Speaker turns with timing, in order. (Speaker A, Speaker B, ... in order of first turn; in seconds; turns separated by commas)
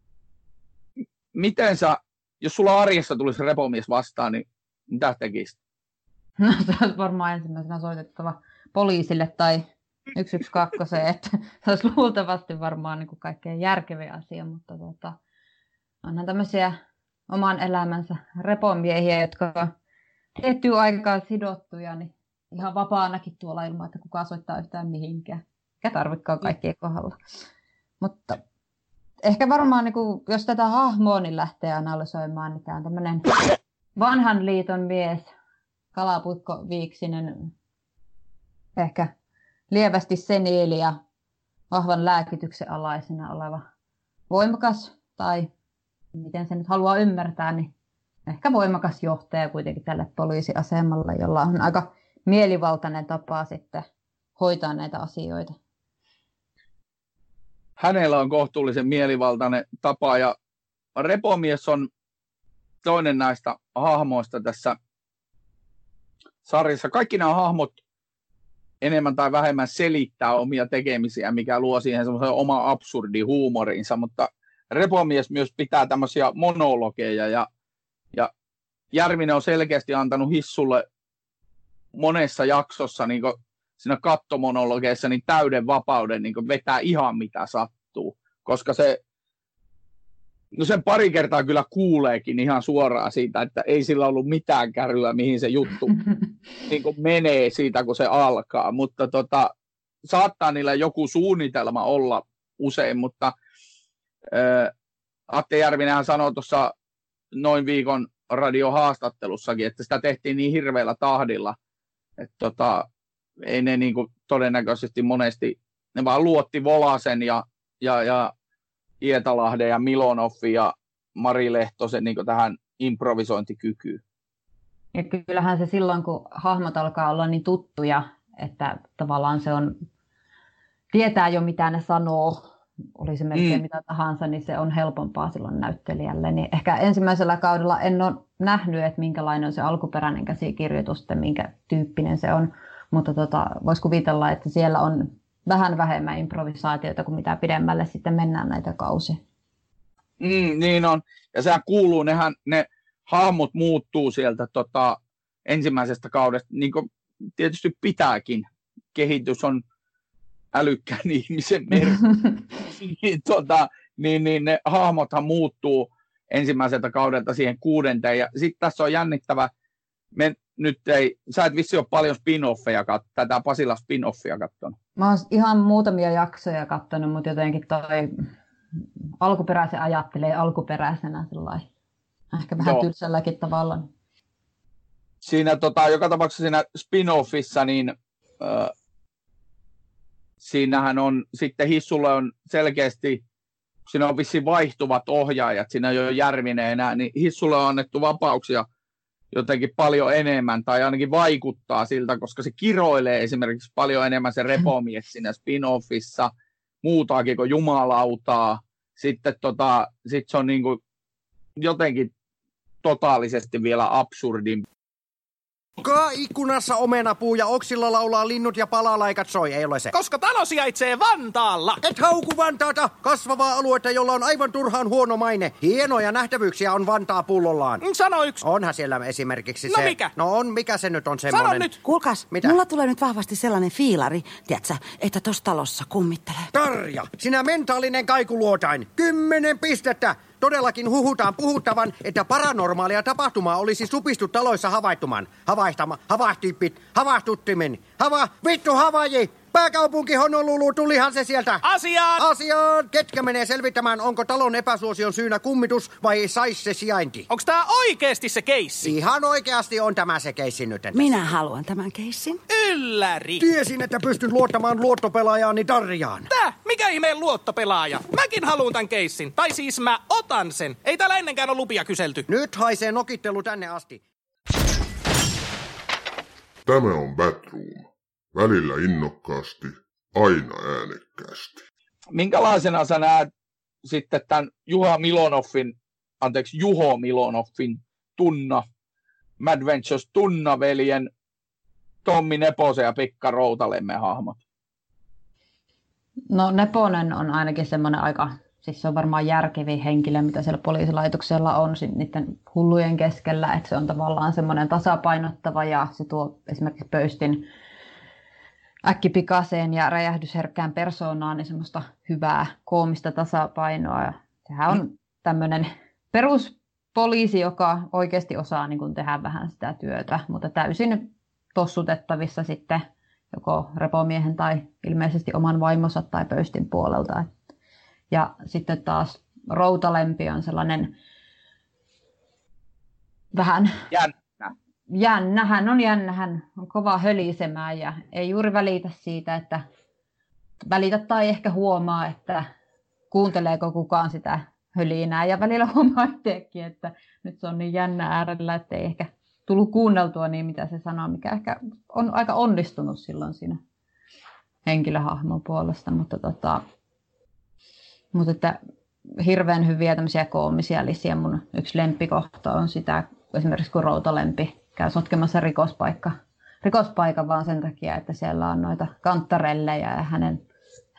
Speaker A: 1.3-5.6, Speaker B: 6.4-15.2, Speaker B: 16.0-16.8, Speaker B: 17.3-19.7, Speaker B: 20.4-27.2, Speaker B: 28.0-28.4, Speaker B: 29.2-33.3, Speaker B: 34.0-35.3, Speaker B: 35.9-37.5, Speaker B: 38.8-39.1, Speaker B: 39.7-41.0, Speaker B: 41.7-43.6, Speaker B: 44.3-45.5, Speaker B: 46.1-47.7, Speaker B: 48.3-53.9, Speaker B: 54.4-55.5, Speaker A: 57.8-60.3, Speaker A: 61.0-61.9, Speaker A: 62.8-64.8, Speaker A: 66.4-67.8, Speaker A: 68.8-77.5, Speaker A: 78.9-80.8, Speaker A: 81.9-89.0, Speaker A: 90.5-96.0, Speaker A: 96.6-99.5, Speaker A: 100.0-103.3, Speaker A: 104.3-104.7, Speaker A: 105.3-106.7, Speaker A: 107.3-111.5, Speaker A: 112.2-112.8, Speaker A: 113.4-118.3, Speaker A: 119.0-124.0, Speaker B: 124.9-129.8, Speaker B: 130.9-132.4, Speaker B: 133.0-149.2, Speaker A: 133.3-133.6, Speaker A: 150.2-159.6, Speaker A: 160.5-169.5, Speaker A: 170.2-174.7, Speaker B: 175.0-178.1, Speaker B: 179.2-181.7, Speaker B: 182.3-183.9, Speaker A: 182.6-182.8, Speaker A: 185.2-188.7, Speaker A: 190.4-193.2, Speaker A: 193.9-198.7, Speaker A: 199.3-206.3, Speaker A: 206.8-210.8, Speaker A: 211.6-212.1, Speaker A: 212.8-214.6, Speaker C: 215.8-219.9, Speaker D: 219.9-221.8, Speaker C: 221.8-227.8, Speaker D: 227.8-228.4, Speaker C: 228.4-231.7, Speaker D: 229.7-230.1, Speaker D: 231.3-231.8, Speaker E: 231.8-236.5, Speaker C: 236.5-251.6, Speaker D: 251.6-252.2, Speaker C: 252.2-257.2, Speaker D: 257.3-258.9, Speaker C: 258.8-261.0, Speaker E: 260.9-262.4, Speaker D: 262.5-263.4, Speaker C: 263.4-266.3, Speaker D: 266.3-272.2, Speaker C: 272.3-274.0, Speaker F: 276.6-281.6, Speaker A: 282.1-283.3, Speaker A: 283.8-288.6, Speaker A: 289.4-291.1, Speaker A: 292.0-294.4, Speaker B: 296.3-307.4, Speaker B: 308.9-327.3, Speaker B: 328.1-330.9, Speaker B: 333.3-333.8, Speaker A: 333.9-334.5, Speaker B: 334.9-339.6, Speaker B: 340.6-342.4, Speaker B: 343.1-353.6, Speaker B: 354.6-356.6, Speaker B: 358.1-358.6, Speaker B: 359.2-370.4